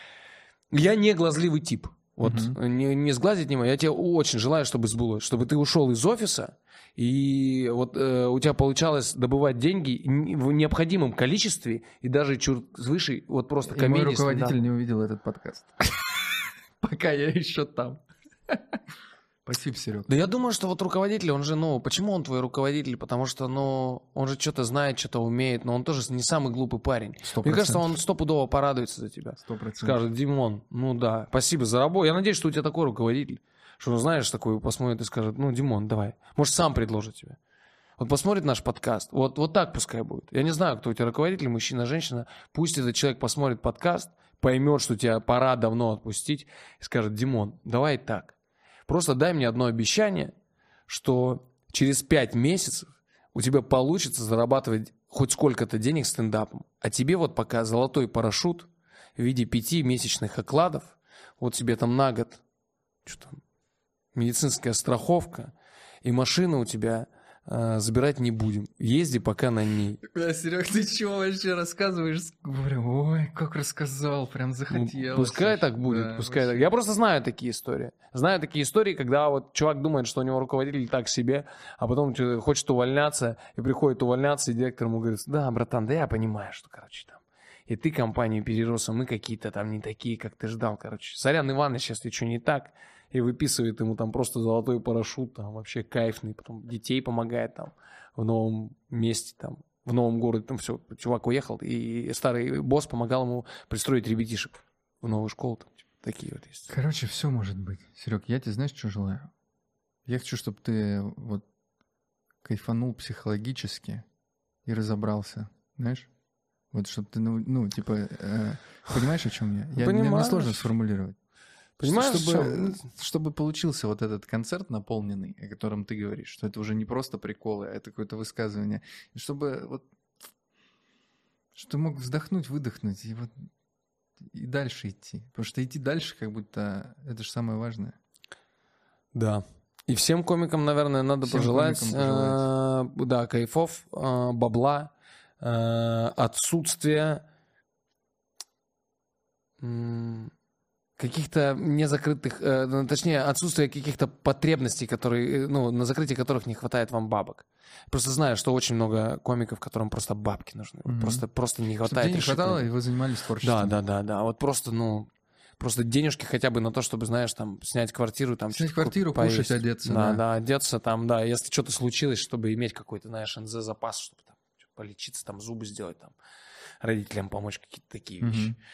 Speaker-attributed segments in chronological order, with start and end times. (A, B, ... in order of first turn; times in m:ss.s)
0:00.7-0:14.6 A
0:02.2-0:02.6 B
0:13.7-0:16.1 B
0:16.8-0:18.8 B
0:19.4-0:20.1 B
0:20.1-0:37.4 A
0:27.2-0:27.9 B
0:29.4-0:30.0 B
0:38.0-0:48.3 A
0:48.9-0:50.3 A
0:50.9-1:02.4 A
1:03.0-1:03.4 A
1:04.1-1:05.5 A
1:06.0-1:10.0 A
1:10.0-1:16.6 B
1:14.7-1:46.7 A
1:46.7-1:49.3 B
1:50.0-1:51.4 B
1:52.4-1:54.0 B
1:54.6-1:56.1 B
1:56.7-2:01.2 B
1:59.8-2:00.7 A
2:01.8-2:02.8 A
2:01.8-2:09.8 B
2:11.6-2:13.4 B
2:14.2-2:18.0 B
2:19.1-2:27.2 A
2:21.2-2:22.4 B
2:29.6-2:30.3 A
2:31.0-2:42.7 A
2:40.8-2:41.2 B
2:41.8-2:43.7 B
2:43.4-2:56.1 A
2:48.5-2:50.2 B
2:56.8-2:58.5 A
2:58.2-2:58.6 B